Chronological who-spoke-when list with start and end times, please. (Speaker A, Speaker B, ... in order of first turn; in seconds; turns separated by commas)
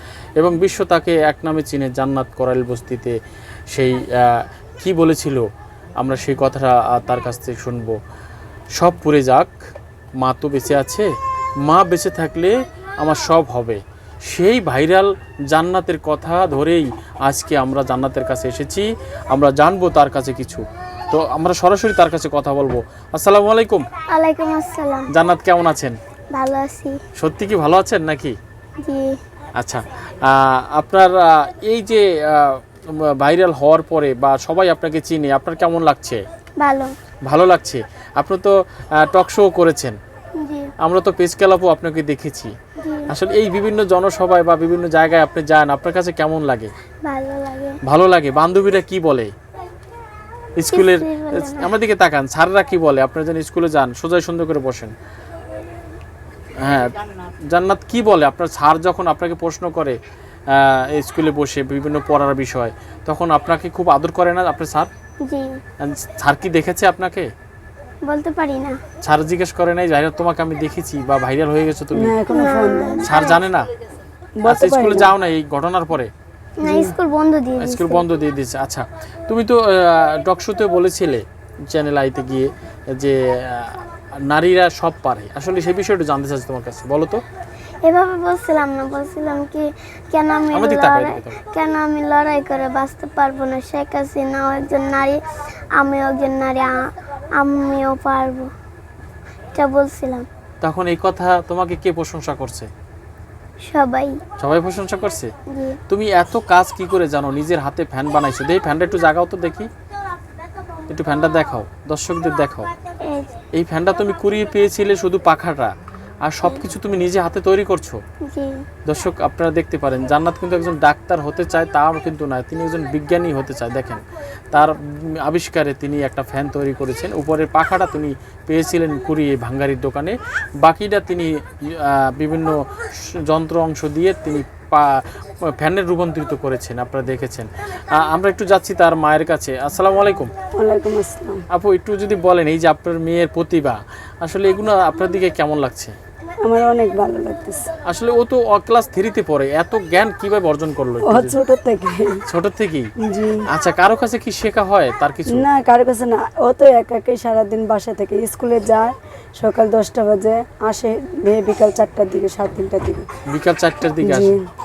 Speaker A: 0.4-3.1, Speaker A: 3.7-5.5, Speaker A: 6.0-8.0, Speaker A: 8.8-9.6, Speaker A: 10.2-11.1, Speaker A: 11.6-23.8, Speaker B: 24.1-25.1, Speaker A: 25.1-26.0, Speaker B: 26.3-27.0, Speaker A: 27.2-28.4, Speaker B: 28.8-29.2, Speaker A: 29.6-36.2, Speaker B: 36.6-36.9, Speaker A: 37.2-40.0, Speaker B: 40.4-40.7, Speaker A: 40.8-42.5, Speaker B: 42.8-43.1, Speaker A: 43.1-46.7, Speaker B: 47.0-47.8, Speaker A: 47.8-49.3, Speaker A: 50.6-54.9, Speaker B: 50.7-51.7, Speaker A: 56.6-56.9, Speaker A: 57.5-60.0, Speaker A: 60.5-64.9, Speaker B: 65.2-65.5, Speaker A: 65.8-67.3, Speaker B: 68.0-68.8, Speaker A: 69.0-72.2, Speaker C: 71.9-73.1, Speaker B: 72.3-73.4, Speaker A: 73.0-73.7, Speaker C: 74.4-75.1, Speaker A: 74.5-76.1, Speaker B: 76.6-78.0, Speaker C: 76.6-76.9, Speaker A: 77.6-87.2, Speaker B: 87.8-95.2, Speaker A: 90.5-91.4, Speaker B: 95.8-98.5, Speaker B: 99.5-100.2, Speaker A: 100.6-102.7, Speaker B: 103.7-104.2, Speaker A: 104.4-105.3, Speaker B: 105.5-105.8, Speaker A: 105.9-109.7, Speaker A: 110.9-112.7, Speaker B: 113.1-113.4, Speaker A: 113.5-118.0, Speaker B: 118.3-118.6, Speaker A: 118.8-140.3, Speaker C: 140.6-141.4, Speaker A: 141.5-145.9, Speaker C: 146.4-147.7, Speaker A: 147.8-151.4, Speaker C: 151.0-152.2, Speaker A: 152.3-152.9, Speaker C: 153.0-153.4, Speaker A: 153.5-155.4, Speaker C: 155.3-163.1, Speaker A: 163.3-164.4, Speaker C: 164.0-164.5